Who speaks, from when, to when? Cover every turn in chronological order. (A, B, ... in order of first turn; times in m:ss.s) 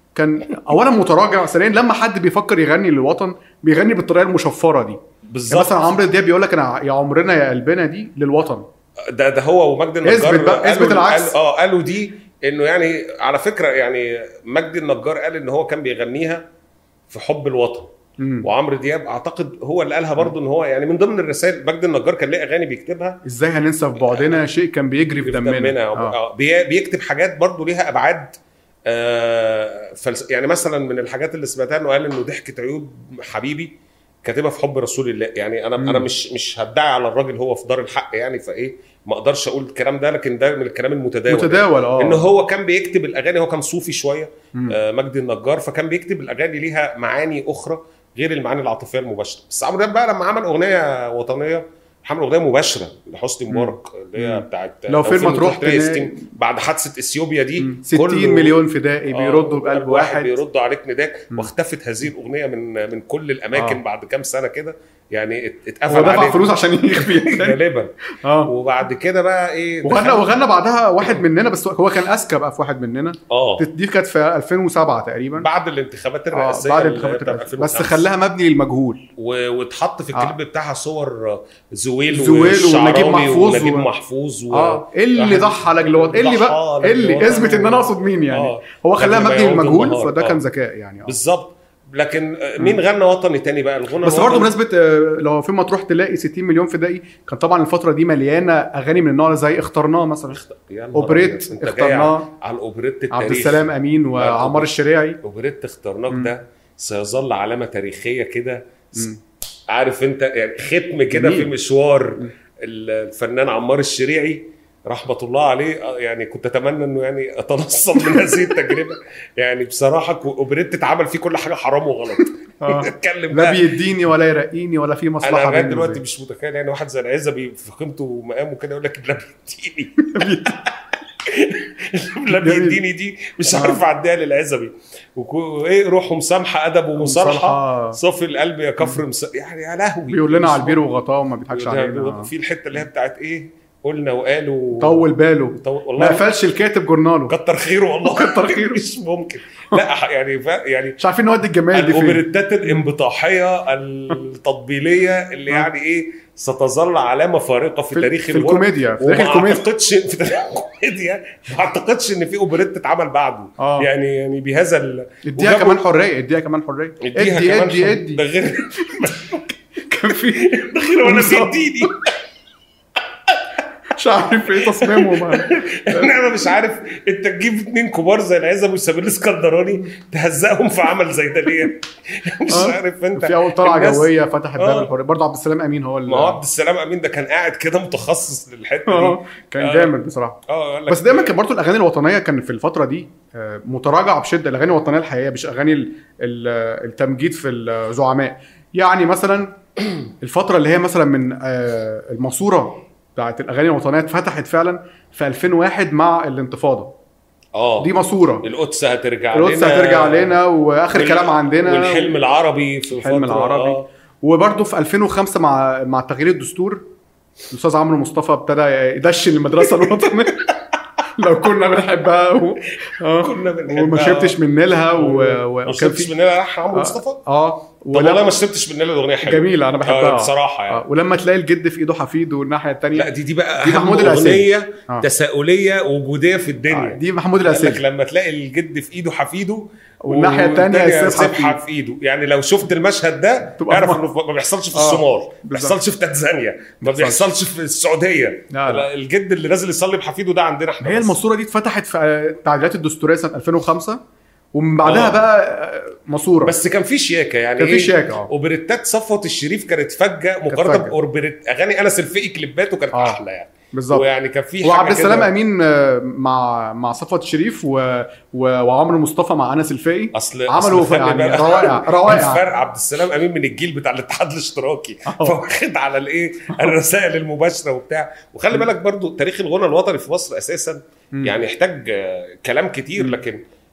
0:00.1-0:05.0 A
0:05.3-0:05.8 B
0:05.5-0:08.6 A
0:09.1-0:16.4 B
0:10.0-0:11.4 A
0:17.1-0:17.9 B
0:18.2-0:18.5 A
0:18.4-0:23.2 B
0:23.2-0:26.2 A
0:24.0-0:24.4 B
0:25.2-0:28.3 B
0:28.9-0:58.6 B
0:35.8-0:36.1 A
0:41.3-0:42.3 A
0:53.5-0:56.3 A
0:57.6-1:00.4 A
0:59.1-1:07.9 B
1:03.5-1:03.8 A
1:05.9-1:07.6 A
1:08.2-1:08.5 A
1:08.4-1:10.3 B
1:09.8-1:15.5 A
1:13.3-1:13.6 B
1:15.4-1:18.1 B
1:16.3-1:19.1 A
1:19.2-1:30.4 B
1:22.1-1:23.9 A
1:24.5-1:31.1 A
1:31.0-1:34.5 B
1:34.0-1:40.4 A
1:40.3-1:49.1 B
1:40.9-1:42.3 A
1:43.1-1:45.2 A
1:46.1-1:46.3 A
1:49.7-2:03.6 B
1:51.1-1:51.5 A
2:02.6-2:06.0 A
2:05.2-2:10.7 B
2:10.1-2:10.6 A
2:11.2-2:20.8 B
2:12.3-2:12.8 A
2:13.5-2:13.8 A
2:17.0-2:18.0 A
2:20.1-2:22.3 A
2:21.5-2:25.0 B
2:24.7-2:27.3 A
2:25.6-2:26.3 B
2:27.3-2:31.0 B
2:28.0-2:28.8 A
2:31.0-2:32.9 A
2:31.7-2:45.8 B
2:37.9-2:39.7 A
2:43.6-2:43.9 A
2:45.3-2:48.2 A
2:47.0-2:49.5 B
2:48.8-2:51.9 A
2:50.1-2:52.0 B
2:53.9-2:56.1 A
2:54.6-3:04.9 B
3:02.5-3:06.4 A
3:06.1-3:09.9 B
3:08.9-3:19.5 A
3:10.5-3:11.4 B
3:20.2-3:26.9 A
3:27.5-3:30.4 B
3:27.8-3:28.4 A
3:29.3-3:32.2 A
3:30.9-3:33.8 B
3:32.9-3:36.8 A
3:37.5-3:40.5 A
3:39.8-3:40.2 B
3:41.2-3:46.1 A
3:43.1-3:44.4 B
3:44.9-3:47.2 B
3:46.7-3:48.3 A
3:47.9-3:50.8 B
3:49.2-3:55.0 A
3:52.9-4:11.2 B
3:56.7-3:57.8 A
4:00.0-4:01.6 A
4:03.6-4:04.0 A
4:04.7-4:05.8 A
4:06.8-4:07.3 A
4:08.5-4:08.9 A
4:10.8-4:14.0 A
4:14.5-4:16.5 A
4:14.8-4:15.2 B
4:16.4-4:25.3 B
4:17.6-4:18.3 A
4:20.5-4:20.9 A
4:22.9-4:23.2 A
4:23.7-4:24.0 A
4:24.6-4:32.5 A
4:30.1-4:43.4 B
4:35.1-4:35.4 A